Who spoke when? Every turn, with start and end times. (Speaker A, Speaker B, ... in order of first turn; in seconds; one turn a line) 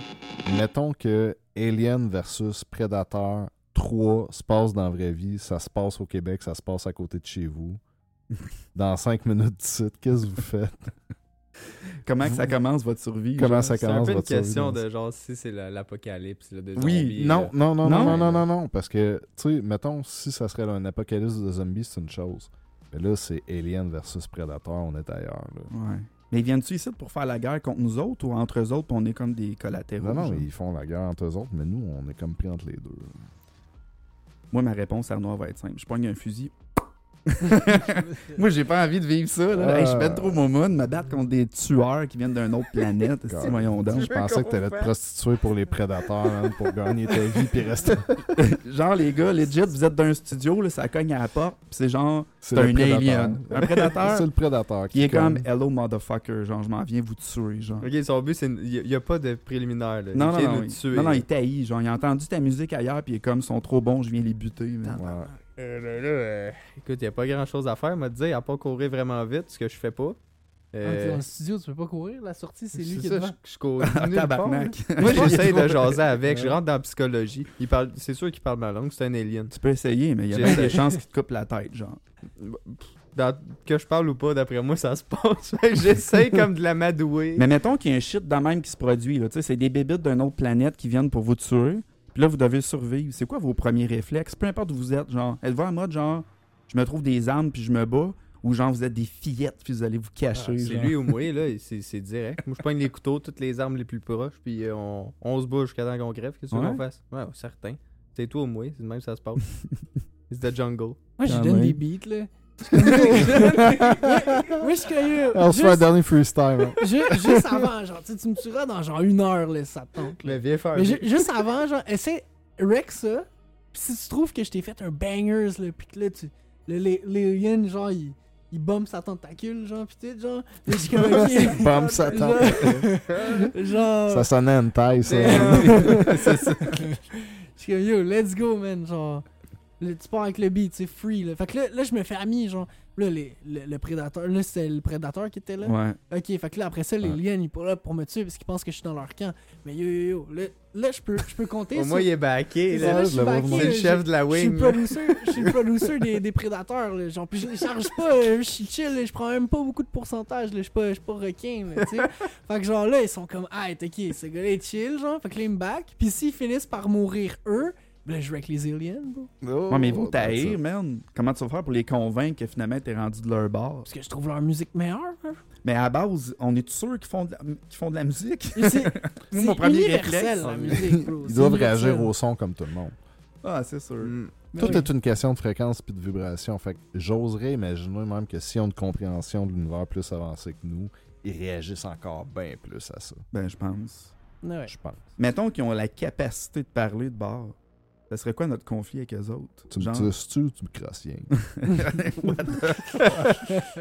Speaker A: 0.4-7.8
Speaker A: 8.7-10.9
Speaker B: 12.0-14.2
Speaker A: 12.2-12.5
Speaker A: 13.4-14.8
Speaker C: 13.8-18.2
Speaker B: 16.7-17.2
Speaker A: 17.1-25.7
Speaker B: 17.8-18.4
Speaker B: 25.7-30.5
Speaker A: 30.0-33.2
Speaker B: 34.5-36.5
Speaker B: 37.3-44.1
Speaker A: 39.5-40.4
Speaker A: 43.3-48.4
Speaker C: 43.5-44.9
Speaker B: 48.4-54.3
Speaker A: 52.4-55.5
Speaker C: 53.5-54.0
Speaker B: 54.9-57.9
Speaker C: 57.8-61.2
Speaker B: 60.1-65.0
Speaker D: 64.9-65.3
Speaker A: 64.9-65.3
Speaker C: 65.6-70.2
Speaker C: 70.7-71.2
Speaker D: 70.8-73.3
Speaker C: 72.7-79.5
Speaker B: 73.8-76.0
Speaker A: 75.3-75.6
Speaker B: 79.5-82.0
Speaker C: 80.3-80.8
Speaker C: 82.4-87.5
Speaker B: 87.3-101.2
Speaker C: 100.5-109.4
Speaker B: 106.5-106.8
Speaker C: 110.3-111.0
Speaker D: 111.2-116.0
Speaker A: 111.3-111.7
Speaker B: 111.3-111.8
Speaker C: 112.8-113.8
Speaker A: 113.0-114.6
Speaker A: 115.3-117.6
Speaker D: 116.8-134.3
Speaker C: 120.2-121.4
Speaker A: 131.1-132.8
Speaker C: 131.3-133.4
Speaker A: 134.1-136.2
Speaker C: 135.0-136.5
Speaker D: 135.0-139.2
Speaker B: 135.4-136.8
Speaker D: 139.8-152.1
Speaker B: 145.6-146.0
Speaker C: 151.7-156.0
Speaker D: 152.7-169.3
Speaker A: 152.8-153.8
Speaker A: 169.4-170.6
Speaker B: 169.7-173.9
Speaker D: 173.8-175.4
Speaker B: 175.6-180.6
Speaker D: 178.5-182.1
Speaker C: 180.4-180.9
Speaker A: 181.1-183.0
Speaker B: 183.4-184.1
Speaker C: 184.0-184.3
Speaker D: 184.5-184.9
Speaker A: 184.6-193.2
Speaker B: 193.3-194.1
Speaker D: 194.4-194.7
Speaker A: 194.7-195.0
Speaker B: 195.2-197.6
Speaker B: 198.1-200.1
Speaker A: 199.7-201.3
Speaker B: 201.6-203.3
Speaker C: 202.9-203.3